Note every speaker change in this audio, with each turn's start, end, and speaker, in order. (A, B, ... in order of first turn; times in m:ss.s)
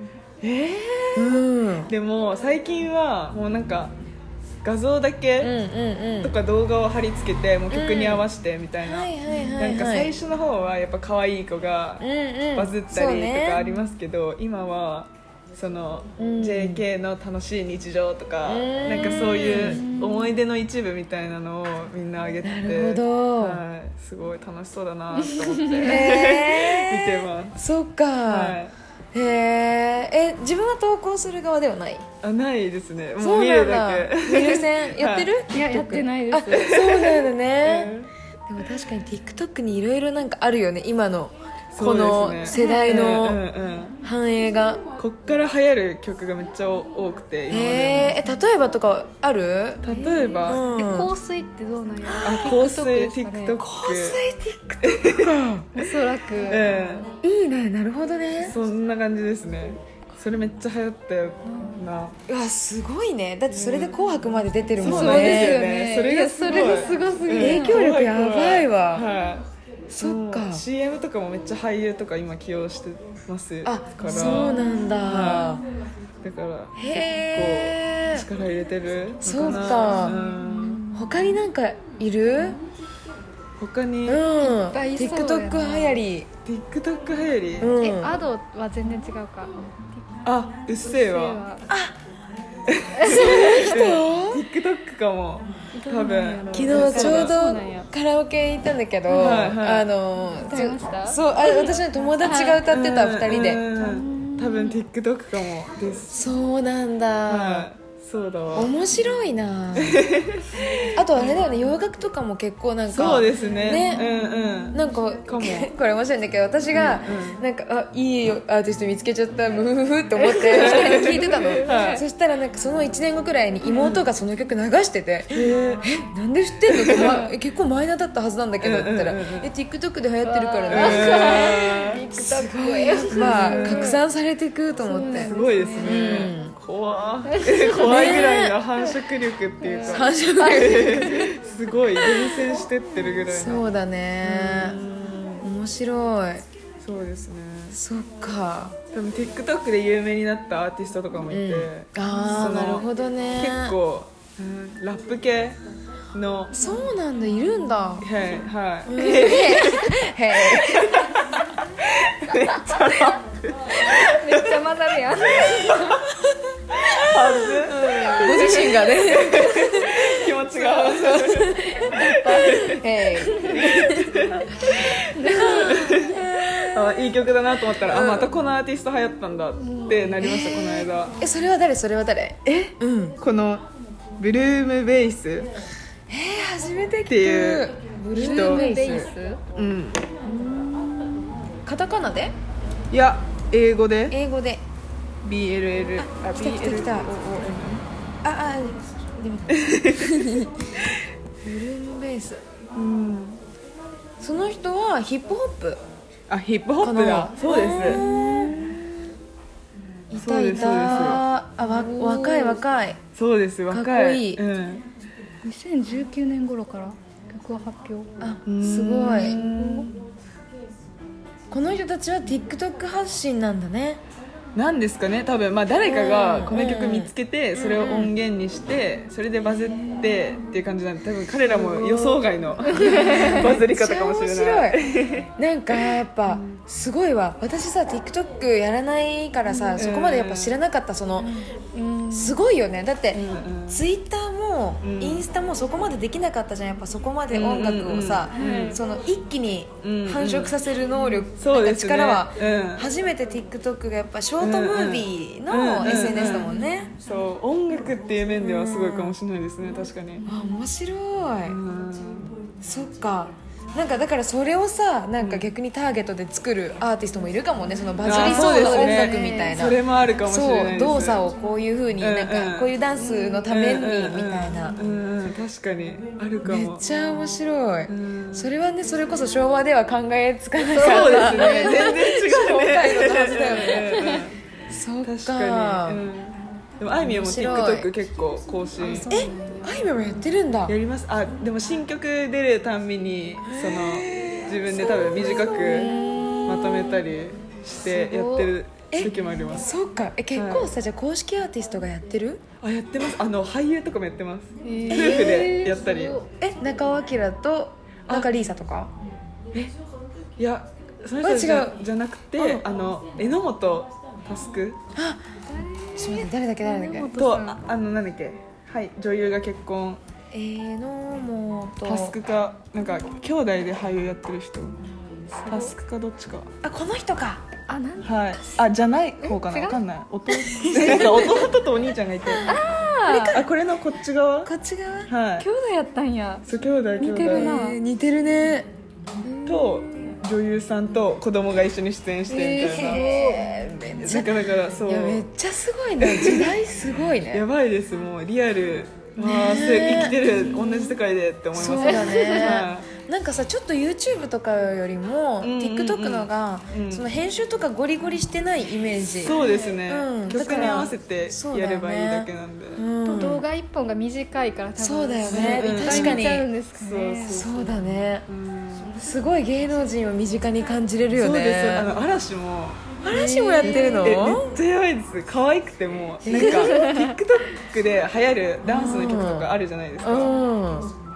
0:00.4-0:03.9 A
0:01.2-0:01.9 B
0:04.6-0:05.6 A
0:05.4-0:06.4 B
0:06.2-0:12.0 A
0:07.7-0:08.3 B
0:08.8-0:10.1 B
0:12.0-0:13.7 B
0:12.6-0:27.6 A
0:16.2-0:16.8 B
0:18.4-0:19.9 B
0:19.5-0:20.3 C
0:22.4-0:23.6 B
0:25.3-0:26.0 C
0:25.8-0:28.6 B
0:28.3-0:28.7 A
0:29.1-0:32.0 B
0:32.2-0:35.3 A
0:33.2-0:37.9 B
0:35.5-0:36.8 C
0:36.6-0:38.1 A
0:38.5-0:43.4 B
0:41.7-0:44.0 A
0:42.5-0:43.1 C
0:44.0-0:44.8 B
0:45.0-0:48.2 A
0:47.5-0:49.8 B
0:49.8-0:50.6 A
0:49.9-0:53.6 C
0:50.5-0:51.1 B
0:52.0-0:52.6 B
0:52.2-0:54.2 A
0:53.6-0:55.7 B
0:54.8-0:55.9 A
0:55.7-0:56.7 C
0:56.5-0:57.1 A
0:57.2-0:58.6 B
0:58.4-1:02.2 A
1:01.5-1:01.8 C
1:02.3-1:05.7 B
1:03.5-1:04.0 A
1:04.8-1:09.4 A
1:04.8-1:07.8 C
1:06.4-1:09.1 B
1:09.9-1:10.6 B
1:10.0-1:15.7 A
1:13.6-1:15.6 B
1:16.2-1:20.8 A
1:16.8-1:18.3 B
1:19.2-1:20.2 B
1:20.1-1:21.1 C
1:20.9-1:22.6 B
1:23.6-1:24.2 A
1:24.0-1:26.3 B
1:24.4-1:26.0 C
1:26.5-1:27.7 A
1:27.6-1:28.2 B
1:27.8-1:30.1 C
1:30.2-1:31.4 A
1:30.8-1:31.7 C
1:31.7-1:32.0 B
1:32.7-1:37.4 A
1:33.0-1:33.6 C
1:33.0-1:34.4 B
1:35.7-1:37.9 C
1:36.5-1:43.7 B
1:39.1-1:39.9 A
1:40.4-1:41.2 C
1:42.2-1:42.6 C
1:42.6-1:46.2 A
1:43.7-1:44.8 C
1:46.1-1:47.7 B
1:47.3-1:48.8 A
1:48.6-1:50.1 B
1:49.8-1:51.4 A
1:50.9-1:54.1 B
1:52.9-1:55.7 A
1:54.7-2:16.6 B
1:56.7-1:57.4 A
2:00.2-2:02.0 C
2:00.5-2:02.0 A
2:03.7-2:04.1 A
2:05.3-2:05.9 A
2:06.7-2:07.3 A
2:08.6-2:09.5 A
2:10.2-2:14.0 C
2:10.7-2:12.0 A
2:13.1-2:14.0 A
2:14.8-2:16.2 C
2:15.0-2:23.6 A
2:17.3-2:18.2 C
2:17.8-2:18.6 B
2:19.6-2:20.0 C
2:19.9-2:21.3 B
2:22.0-2:22.5 B
2:23.3-2:24.8 B
2:24.2-2:25.5 A
2:25.4-2:26.4 B
2:26.8-2:27.8 A
2:27.7-2:28.8 B
2:28.9-2:35.6 A
2:31.3-2:33.8 B
2:36.1-2:36.6 A
2:36.5-2:38.1 B
2:38.0-2:44.6 A
2:38.9-2:41.1 B
2:43.8-2:46.0 C
2:45.2-2:46.0 A
2:46.8-2:52.8 A
2:47.2-2:54.0 B
2:47.8-2:48.7 C
2:51.9-2:52.7 C
2:53.3-2:53.6 C
2:53.4-3:01.2 A
2:55.2-2:56.0 C
2:55.3-2:56.8 B
2:57.9-2:58.3 B
2:59.6-3:00.1 C
3:00.2-3:03.2 B
3:02.4-3:03.7 A
3:04.2-3:05.5 A
3:06.1-3:09.1 B
3:07.1-3:08.7 A
3:08.1-3:09.4 C
3:09.6-3:10.1 A
3:10.3-3:12.4 B
3:12.9-3:14.2 A
3:14.1-3:14.6 B
3:15.2-3:17.8 A
3:16.0-3:17.6 B
3:18.2-3:20.5 B
3:19.5-3:20.2 A
3:21.4-3:22.4 B
3:22.7-3:23.4 A
3:24.2-3:25.8 B
3:26.3-3:28.0 A
3:26.8-3:28.8 B
3:30.1-3:33.0 B
3:30.2-3:31.2 A
3:31.6-3:32.6 C
3:33.2-3:34.8 A
3:33.7-3:34.4 B
3:35.4-3:38.1 C
3:38.2-3:39.4 B
3:38.5-3:40.0 A
3:39.3-3:39.9 C
3:41.5-3:44.0 B
3:44.6-3:56.6 A
3:45.8-3:48.1 B
3:51.5-3:54.8 B
3:52.7-3:53.5 C
3:55.4-4:01.4 B
3:59.8-4:00.6 A
4:01.7-4:02.4 C
4:02.1-4:16.9 B
4:03.1-4:03.8 A
4:04.8-4:05.2 A
4:07.3-4:08.8 A
4:08.4-4:08.8 C
4:09.8-4:10.6 A
4:11.4-4:12.9 A
4:14.4-4:20.2 A
4:18.4-4:19.2 B
4:20.2-4:20.5 C
4:20.3-4:21.6 B
4:21.4-4:22.3 A
4:22.6-4:34.8 B
4:25.2-4:25.5 A
4:28.0-4:31.2 A
4:28.3-4:29.6 C
4:32.0-4:32.8 A
4:33.0-4:33.5 C
4:33.4-4:36.8 A
4:36.4-4:44.1 B
4:37.9-4:38.5 A
4:40.7-4:42.0 C
4:40.8-4:44.4 A
4:43.7-4:44.2 C
4:44.7-4:46.0 B
4:45.0-4:49.1 A
4:47.0-4:47.9 B
4:48.8-4:50.8 B
4:48.8-4:49.9 C
4:50.7-4:59.7 A
4:53.4-4:57.1 B
4:57.8-4:58.5 C
4:58.9-5:02.4 B
5:00.4-5:00.7 A
5:02.6-5:06.2 A
5:04.6-5:06.3 C
5:04.9-5:05.4 B
5:06.4-5:08.9 B
5:10.4-5:14.8 A
5:11.2-5:11.8 B
5:12.4-5:12.6 B
5:15.0-5:15.2 B
5:15.5-5:17.6 C
5:16.0-5:17.2 B
5:17.2-5:20.0 A
5:20.3-5:22.2 B
5:21.8-5:24.8 A
5:25.4-5:25.7 C
5:25.4-5:26.5 A
5:26.6-5:27.4 B
5:27.7-5:28.6 C
5:28.0-5:32.6 A
5:29.2-5:29.8 C
5:30.4-5:31.5 B
5:30.7-5:31.1 C
5:32.3-5:33.5 B
5:32.4-5:33.4 C
5:33.3-5:34.5 A
5:34.4-5:35.1 B
5:35.1-5:35.5 A
5:35.4-5:36.4 C
5:36.5-5:37.6 A
5:37.0-5:37.8 C
5:37.2-5:38.7 B
5:39.2-5:40.1 B
5:39.5-5:43.1 A
5:42.3-5:43.6 C
5:42.6-5:47.5 B
5:44.0-5:45.2 A
5:46.0-5:46.6 A
5:47.3-5:52.9 A
5:49.2-5:51.0 B
5:51.5-6:03.4 B
5:51.9-5:52.5 C
5:55.4-5:57.1 A
5:59.2-6:02.8 A
5:59.3-5:59.8 C
6:00.4-6:00.9 C
6:03.0-6:07.5 C
6:04.8-6:06.5 B
6:05.2-6:09.0 A
6:07.3-6:08.2 B
6:09.0-6:11.9 B
6:11.1-6:12.9 A
6:13.0-6:14.6 B
6:13.1-6:14.2 C
6:13.6-6:20.4 A
6:16.2-6:16.8 B
6:16.3-6:17.1 C
6:18.6-6:19.5 B
6:20.0-6:20.9 B